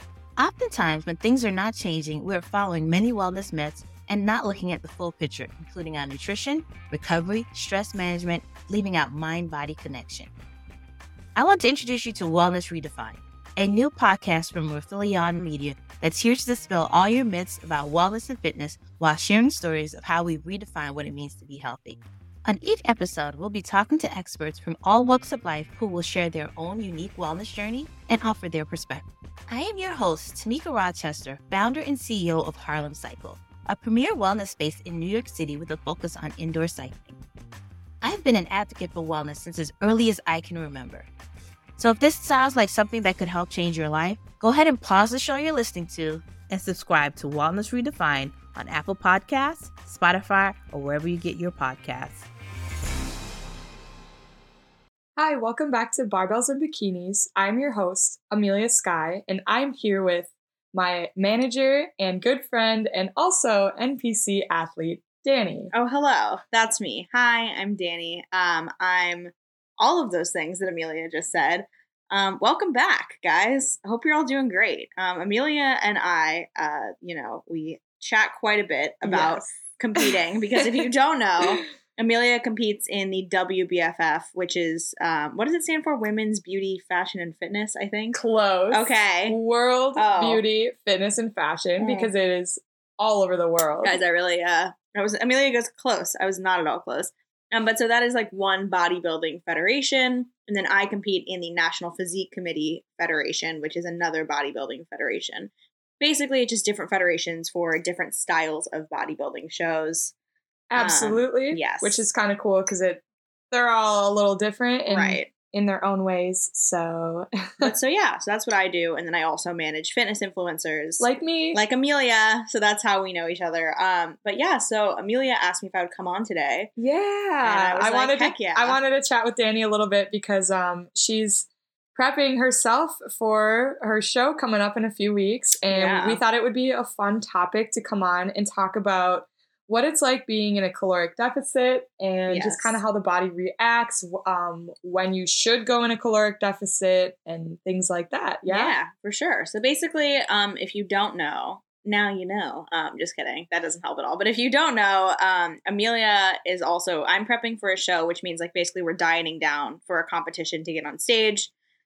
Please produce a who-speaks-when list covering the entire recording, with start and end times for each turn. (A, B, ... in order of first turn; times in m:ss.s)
0:00.4-0:10.3 A
0:11.3-0:37.2 A
0:38.0-0:41.1 A
0:41.8-0:52.2 A
0:55.2-1:05.7 B
1:05.7-1:28.2 C
1:19.0-1:20.1 B
1:28.1-1:34.0 B
1:28.7-1:29.4 C
1:29.9-1:30.4 C
1:31.8-1:32.1 C
1:33.8-1:50.1 C
1:50.7-1:57.7 B
1:50.8-1:52.0 C
1:54.9-1:55.3 C
1:57.6-2:06.7 C
2:01.0-2:01.6 B
2:06.8-2:28.7 B
2:07.4-2:08.8 C
2:15.7-2:16.2 C
2:22.3-2:22.8 C
2:28.5-2:41.5 C